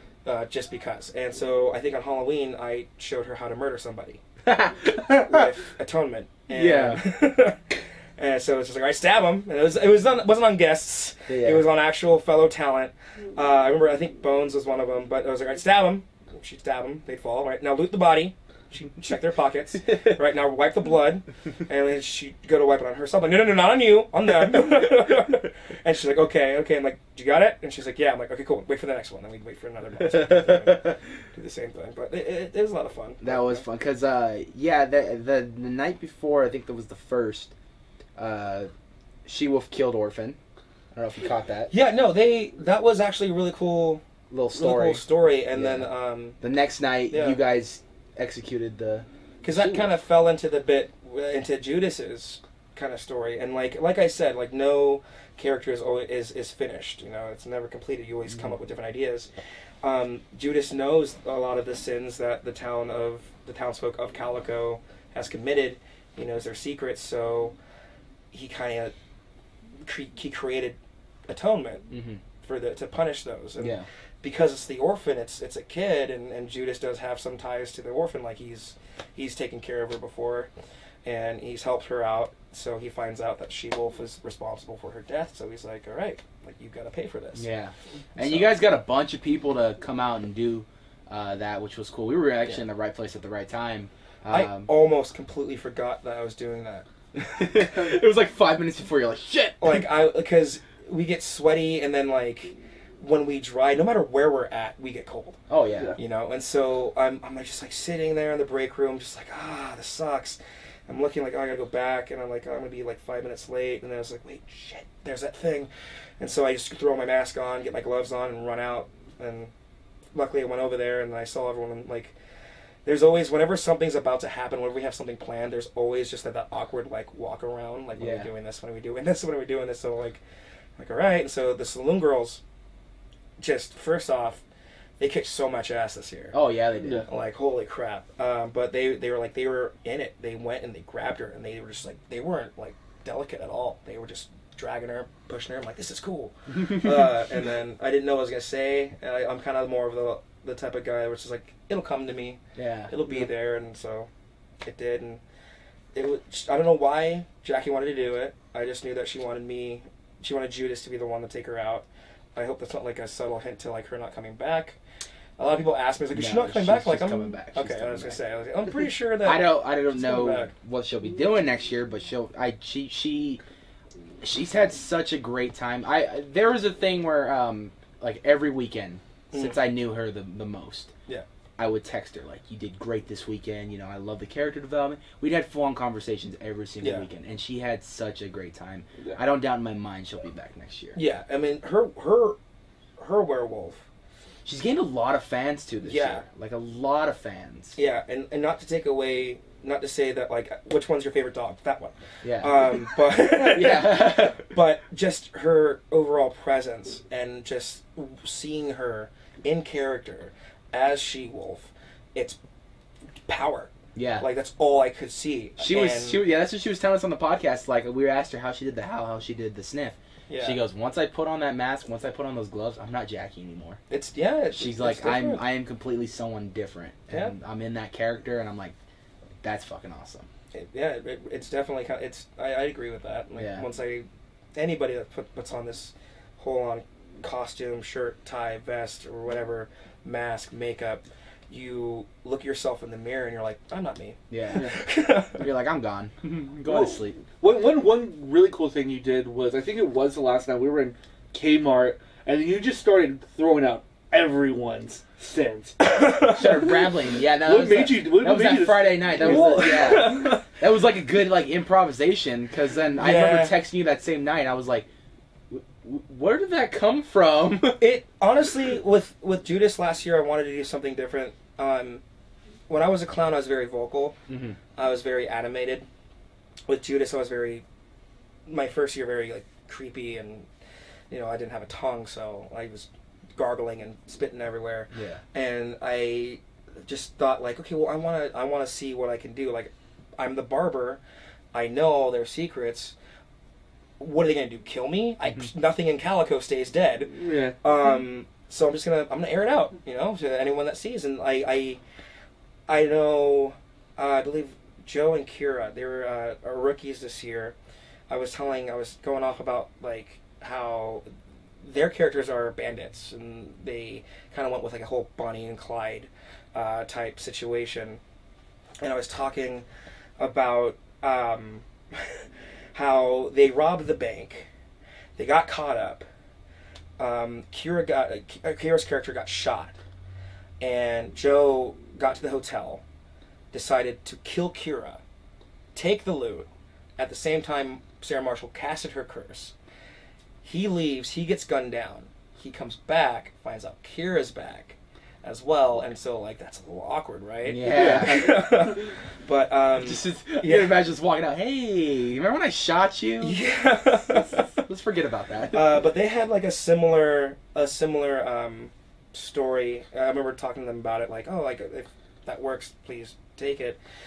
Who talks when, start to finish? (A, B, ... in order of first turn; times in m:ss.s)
0:00.2-0:04.2 A
0:04.5-0:05.4 B
0:05.0-0:33.6 A
0:06.5-0:07.0 B
0:11.3-0:11.7 B
0:30.1-0:30.7 B
0:33.2-0:37.5 B
0:38.2-0:38.7 B
0:39.2-0:40.4 B
0:40.9-0:41.7 B
0:41.7-0:44.0 A
0:44.3-0:45.0 B
0:44.5-0:46.4 A
0:45.5-0:45.9 B
0:46.4-0:49.9 B
0:47.1-0:47.4 A
0:49.4-0:59.3 A
0:58.3-0:58.6 B
0:59.8-1:07.6 A
1:08.3-1:08.9 A
1:09.8-1:11.8 A
1:11.9-1:12.2 B
1:12.4-1:20.5 A
1:13.6-1:13.9 B
1:21.0-1:27.5 A
1:27.4-1:34.7 B
1:28.2-1:28.6 A
1:34.3-1:36.9 A
1:37.1-1:39.9 B
1:39.6-1:45.4 A
1:45.5-1:46.0 B
1:46.0-1:59.5 A
2:00.1-2:02.2 A
2:02.8-2:10.2 A
2:08.0-2:08.3 B
2:10.8-2:12.4 A
2:13.4-2:14.4 A
2:15.0-2:16.4 A
2:16.3-2:17.1 B
2:16.8-2:17.1 C
2:17.1-2:34.1 A
2:32.6-2:32.9 B
2:34.6-2:35.2 A
2:36.0-2:44.8 A
2:45.4-2:50.5 A
2:46.1-2:48.2 B
2:49.2-2:53.4 B
2:54.2-3:00.9 B
2:59.3-2:59.6 A
3:01.6-3:11.0 B
3:06.8-3:07.1 A
3:11.0-3:12.4 A
3:13.0-3:13.8 A
3:14.4-3:17.8 B
3:15.8-3:16.2 A
3:17.8-3:32.4 A
3:22.2-3:24.5 B
3:33.3-3:36.2 A
3:34.0-3:34.3 B
3:35.6-3:43.8 B
3:40.3-3:40.6 A
3:43.9-3:45.4 A
3:44.5-3:48.8 B
3:47.1-3:47.3 A
3:49.4-3:50.3 B
3:50.5-4:05.4 A
3:53.4-3:53.7 B
4:04.3-4:04.7 B
4:05.3-4:07.2 B
4:06.7-4:15.8 C
4:15.8-4:16.8 A
4:16.3-4:24.9 B
4:17.4-4:20.2 C
4:19.2-4:20.5 A
4:23.0-4:23.6 A
4:25.5-4:27.8 B
4:27.8-4:32.0 A
4:32.7-4:34.2 A
4:34.3-4:34.6 B
4:34.8-4:35.9 A
4:36.7-4:37.6 A
4:38.5-4:40.5 A
4:41.1-4:51.0 A
4:44.9-4:45.2 B
4:51.5-4:53.0 A
4:54.0-5:01.8 A
4:57.2-4:57.6 C
5:02.7-5:07.6 A
5:08.1-5:11.0 A
5:11.6-5:18.0 A
5:18.8-5:19.7 A
5:20.2-5:24.5 A
5:25.2-5:26.1 A
5:27.0-5:29.8 A
5:30.6-5:32.8 A
5:33.5-5:35.0 A
5:35.8-5:39.5 A
5:40.4-5:50.8 A
5:47.4-5:48.7 B
5:47.7-5:48.1 C
5:49.8-5:53.4 B
5:53.2-5:54.6 A
5:54.0-5:55.7 B
5:55.5-6:03.8 A